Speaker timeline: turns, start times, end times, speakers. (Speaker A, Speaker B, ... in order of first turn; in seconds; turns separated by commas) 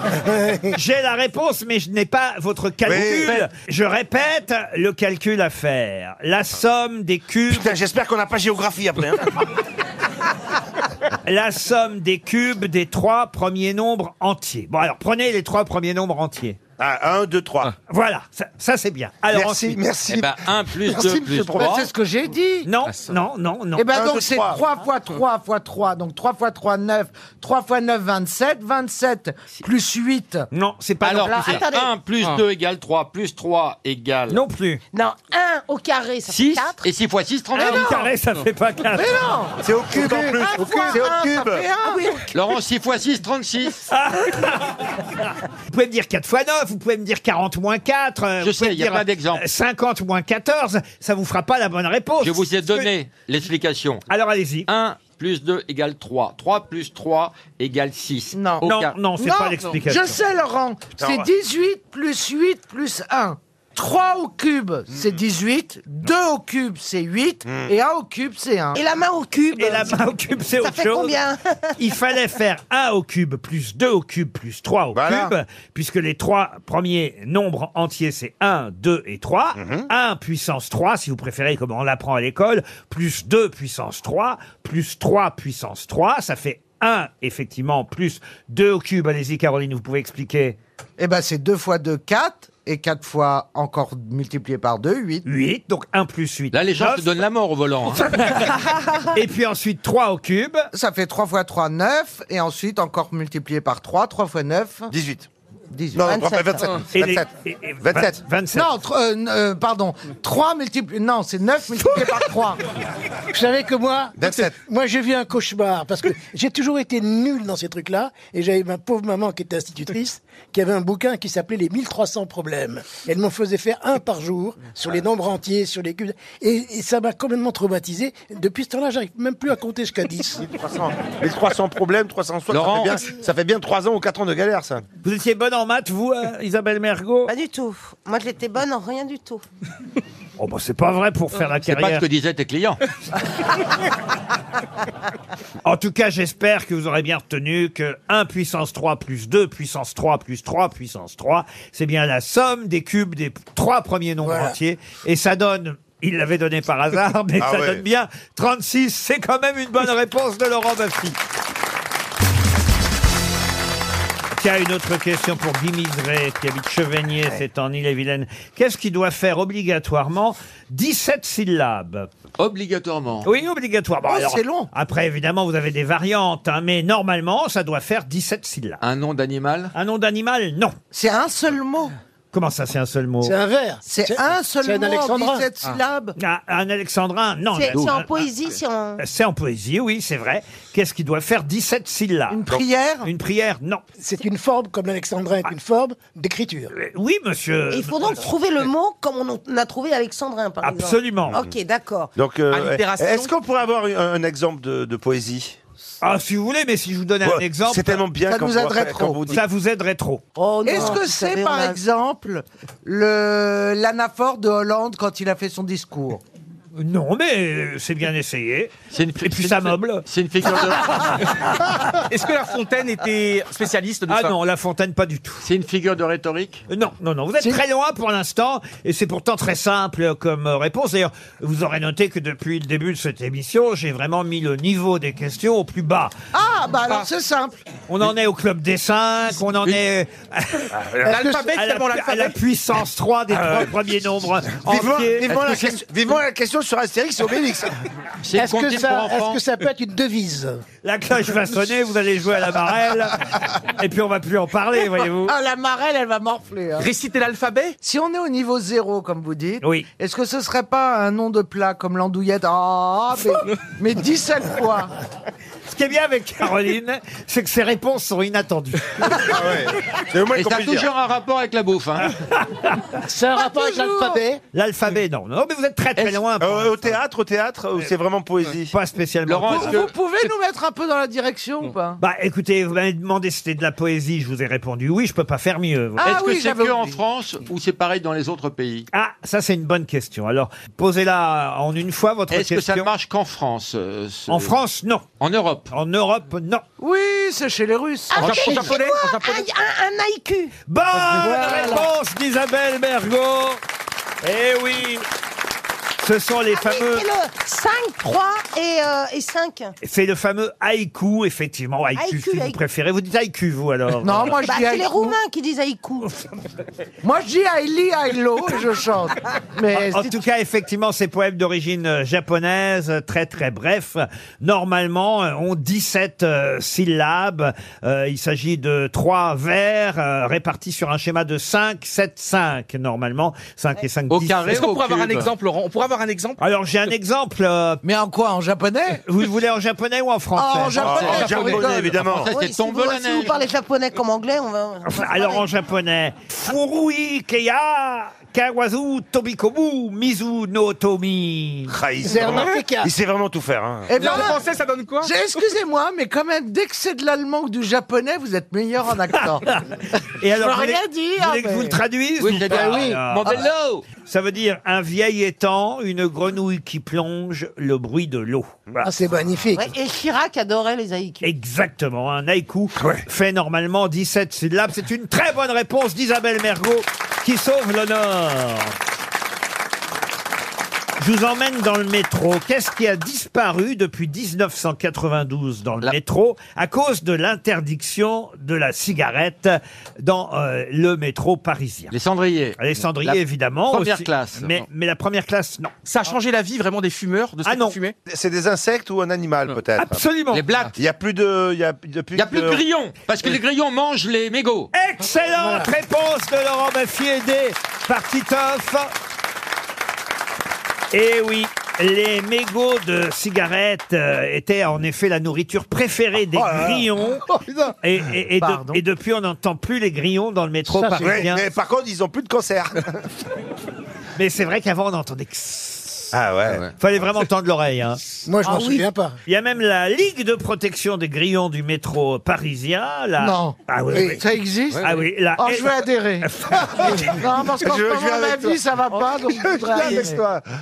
Speaker A: 0.7-7.7, Speaker B: 2.8-3.4, Speaker B: 7.5-9.2, Speaker A: 11.2-16.6, Speaker B: 16.8-17.7, Speaker A: 17.9-19.8, Speaker B: 19.3-21.8, Speaker C: 20.1-21.9, Speaker D: 21.5-22.7, Speaker A: 22.6-23.9, Speaker D: 23.7-30.4, Speaker B: 23.9-24.6, Speaker A: 30.5-31.6, Speaker C: 31.0-34.4, Speaker E: 31.2-31.9, Speaker A: 34.3-34.8, Speaker E: 34.9-36.8, Speaker C: 36.3-38.0, Speaker A: 37.5-39.2, Speaker D: 38.9-42.0, Speaker B: 39.6-41.6, Speaker E: 41.8-42.3, Speaker C: 42.3-43.8, Speaker A: 43.9-52.9, Speaker C: 48.4-49.4, Speaker C: 52.2-54.0, Speaker A: 54.1-54.7, Speaker C: 54.7-58.9, Speaker D: 58.3-58.7, Speaker A: 58.6-60.2, Speaker D: 59.2-68.8, Speaker B: 61.0-61.2, Speaker B: 64.9-65.2, Speaker B: 67.4-67.7, Speaker E: 68.7-71.7, Speaker A: 69.5-71.2, Speaker A: 71.8-90.6, Speaker B: 74.9-75.3, Speaker B: 79.5-79.9, Speaker D: 91.0-95.3, Speaker A: 95.2-97.1, Speaker C: 96.5-98.2, Speaker A: 97.9-100.7, Speaker D: 100.7-104.9, Speaker B: 104.9-105.3, Speaker D: 105.7-106.0, Speaker B: 105.9-107.3, Speaker E: 106.0-106.8, Speaker A: 106.9-108.7, Speaker B: 107.8-108.2, Speaker D: 108.5-112.6, Speaker F: 113.3-130.4, Speaker B: 114.2-114.5, Speaker B: 130.4-134.8, Speaker C: 132.5-133.0, Speaker A: 135.0-137.3, Speaker E: 137.3-139.4, Speaker A: 140.4-142.0, Speaker C: 141.6-142.8, Speaker A: 145.6-161.2, Speaker F: 154.2-154.5, Speaker B: 157.4-157.8, Speaker A: 164.4-172.1, Speaker C: 172.4-173.3, Speaker A: 173.2-178.8, Speaker D: 174.1-174.7, Speaker C: 178.8-179.7, Speaker A: 179.7-180.8, Speaker D: 180.9-181.9, Speaker A: 182.3-183.3, Speaker F: 183.2-185.5, Speaker D: 183.8-186.2, Speaker A: 186.2-188.1, Speaker E: 187.5-189.0, Speaker A: 189.0-193.8, Speaker D: 192.3-193.1, Speaker F: 194.0-196.7, Speaker A: 196.7-198.2, Speaker E: 197.7-202.1, Speaker A: 200.6-201.4, Speaker B: 201.3-201.5, Speaker B: 202.1-205.6, Speaker G: 202.5-203.3, Speaker A: 206.0-208.0, Speaker B: 207.2-209.4, Speaker D: 208.3-209.3, Speaker A: 209.3-210.2, Speaker E: 210.3-211.8, Speaker D: 210.6-216.2, Speaker A: 216.8-221.6, Speaker C: 218.9-221.2, Speaker G: 222.1-224.3, Speaker A: 224.1-225.4, Speaker C: 225.4-226.6, Speaker A: 226.7-236.2, Speaker D: 236.3-237.6, Speaker A: 237.9-240.9, Speaker G: 241.0-242.4, Speaker F: 241.1-241.5, Speaker A: 241.5-245.5, Speaker B: 244.6-247.8, Speaker C: 245.3-245.8, Speaker C: 248.2-249.4, Speaker F: 248.3-250.6, Speaker A: 250.8-255.3, Speaker D: 255.2-256.9, Speaker G: 256.8-257.8, Speaker D: 257.8-264.9, Speaker A: 259.6-259.9, Speaker A: 265.7-269.4, Speaker B: 269.1-270.9, Speaker C: 270.3-272.1, Speaker A: 272.1-273.0, Speaker F: 273.1-274.4, Speaker D: 273.3-274.2, Speaker A: 274.5-276.9, Speaker B: 276.4-278.7, Speaker A: 278.7-279.9, Speaker C: 279.3-279.9, Speaker D: 279.4-282.0, Speaker A: 282.0-286.2, Speaker D: 286.0-286.9, Speaker C: 286.0-288.9, Speaker A: 288.9-292.9, Speaker C: 292.3-294.5, Speaker A: 294.3-295.1, Speaker C: 295.2-295.7, Speaker A: 295.7-296.6, Speaker D: 296.8-298.7, Speaker E: 298.1-300.5, Speaker G: 298.2-299.4, Speaker A: 300.7-303.6, Speaker F: 300.9-301.9, Speaker D: 301.1-301.6, Speaker A: 304.2-305.0, Speaker A: 306.0-307.1, Speaker E: 306.5-309.8, Speaker A: 309.8-314.4, Speaker E: 311.9-312.6, Speaker D: 314.0-315.1, Speaker E: 314.4-316.2, Speaker D: 317.0-320.2, Speaker A: 319.7-334.7, Speaker C: 334.1-335.3, Speaker G: 334.5-336.4, Speaker A: 336.4-337.8, Speaker D: 337.8-339.0, Speaker A: 339.1-341.2, Speaker D: 340.3-341.9, Speaker B: 340.8-342.3, Speaker C: 340.8-343.4, Speaker E: 342.2-345.4, Speaker A: 344.8-351.7, Speaker B: 351.7-354.2, Speaker F: 352.0-352.9, Speaker G: 352.3-352.6, Speaker D: 353.9-354.4, Speaker G: 353.9-355.1, Speaker D: 355.0-359.5, Speaker A: 359.4-368.9, Speaker E: 360.4-361.8, Speaker C: 362.2-363.9, Speaker F: 362.4-363.0, Speaker F: 368.8-369.7, Speaker E: 369.5-371.3, Speaker A: 371.2-378.7, Speaker A: 381.0-391.9, Speaker C: 391.9-394.6, Speaker A: 392.6-395.7, Speaker G: 395.9-397.9, Speaker A: 397.4-397.8, Speaker B: 398.1-400.0, Speaker A: 399.8-400.5, Speaker C: 400.3-400.7, Speaker B: 400.7-402.6, Speaker C: 402.1-404.7, Speaker A: 404.7-408.9, Speaker F: 405.3-405.7, Speaker A: 410.9-417.2, Speaker A: 417.8-421.4, Speaker D: 418.4-418.8, Speaker F: 420.7-421.3, Speaker B: 421.0-423.0, Speaker A: 424.2-426.1, Speaker B: 426.1-426.6, Speaker A: 426.8-428.2, Speaker F: 428.2-429.2, Speaker E: 428.4-428.8, Speaker A: 429.2-434.2, Speaker D: 433.2-433.6, Speaker F: 433.9-434.2, Speaker D: 434.1-440.2, Speaker A: 434.8-436.7, Speaker B: 437.5-440.4